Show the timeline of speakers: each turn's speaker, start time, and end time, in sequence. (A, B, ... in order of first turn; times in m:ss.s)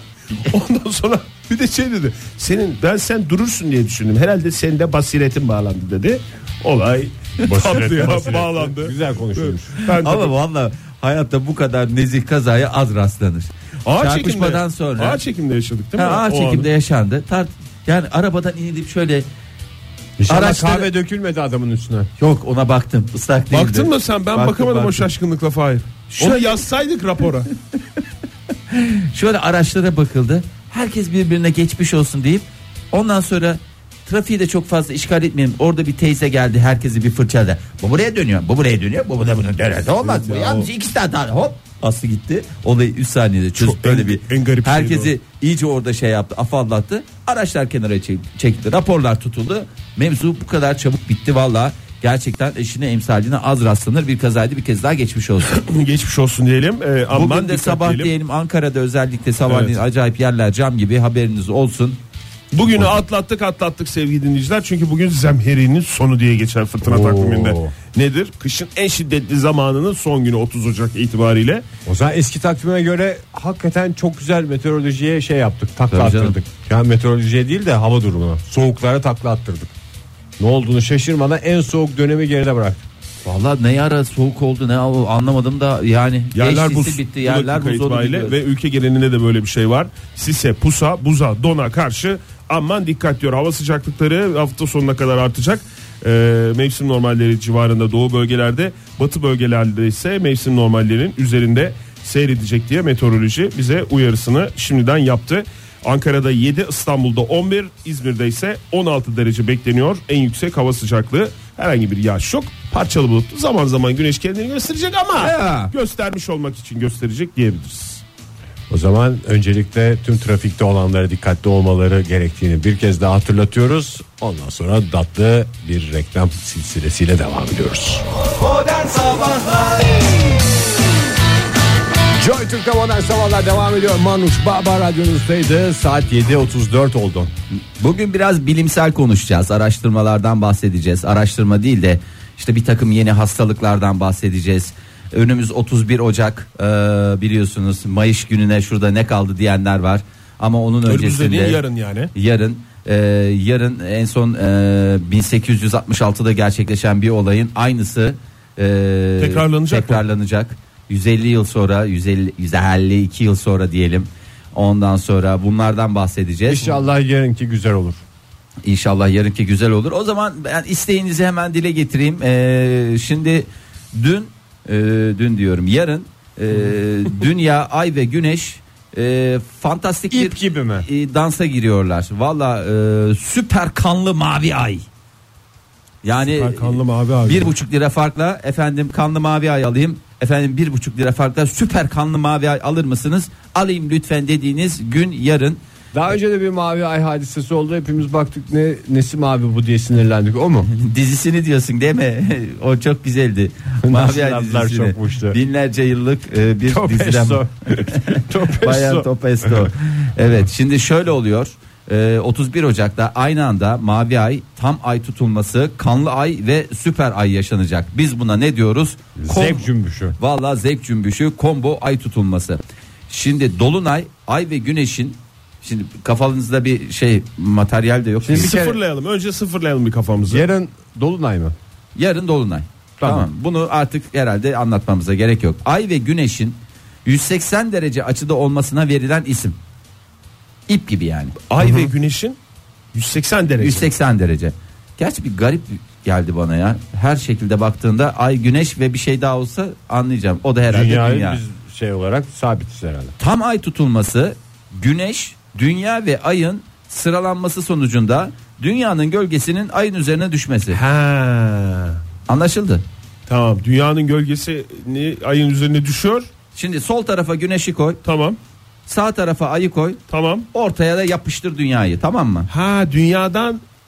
0:00.3-0:10.3 A
0:07.4-0:09.7 B
0:09.8-0:15.2 C
0:13.8-0:16.7 A
0:16.0-0:19.3 C
0:20.2-0:22.1 B
0:20.3-0:20.9 C
0:22.2-0:25.1 C
0:23.5-0:27.5 A
0:26.1-0:26.6 C
0:28.7-0:55.5 C
0:40.0-0:40.7 A
0:43.6-0:45.1 A
0:55.5-0:58.1 A
0:57.1-1:02.0 C
0:59.5-0:59.8 A
1:02.5-1:11.6 A
1:06.8-1:07.7 B
1:11.8-1:19.7 B
1:15.9-1:16.4 C
1:20.4-1:22.8 B
1:23.2-1:28.4 C
1:26.3-1:58.0 A
1:55.2-1:55.7 C
1:58.7-2:08.0 B
2:08.4-2:10.2 C
2:12.2-2:17.3 B
2:17.8-2:31.6 C
2:30.9-2:32.1 A
2:32.1-2:46.8 C
2:39.2-2:40.0 A
2:46.5-2:48.0 B
2:48.6-3:04.8 C
3:00.1-3:00.9 B
3:06.0-3:15.6 C
3:06.3-3:07.5 A
3:15.9-3:20.7 B
3:20.7-3:48.6 C
3:23.8-3:25.4 B
3:26.6-3:29.7 B
3:39.2-3:40.2 B
3:48.2-3:48.8 B
3:48.3-3:50.4 A
3:50.3-3:51.5 B
3:51.9-3:59.6 C
3:53.0-3:53.3 B
4:00.7-4:01.4 C
4:01.5-4:02.4 A
4:02.9-4:03.9 A
4:03.6-4:11.4 C
4:10.7-4:13.1 B
4:13.2-4:20.8 C
4:20.7-4:22.0 A
4:22.3-4:22.8 C
4:23.3-4:26.3 A
4:26.5-4:28.0 C
4:28.0-4:28.4 A
4:28.9-4:30.0 C
4:30.1-4:30.5 A
4:30.5-4:32.5 C
4:32.5-4:33.6 A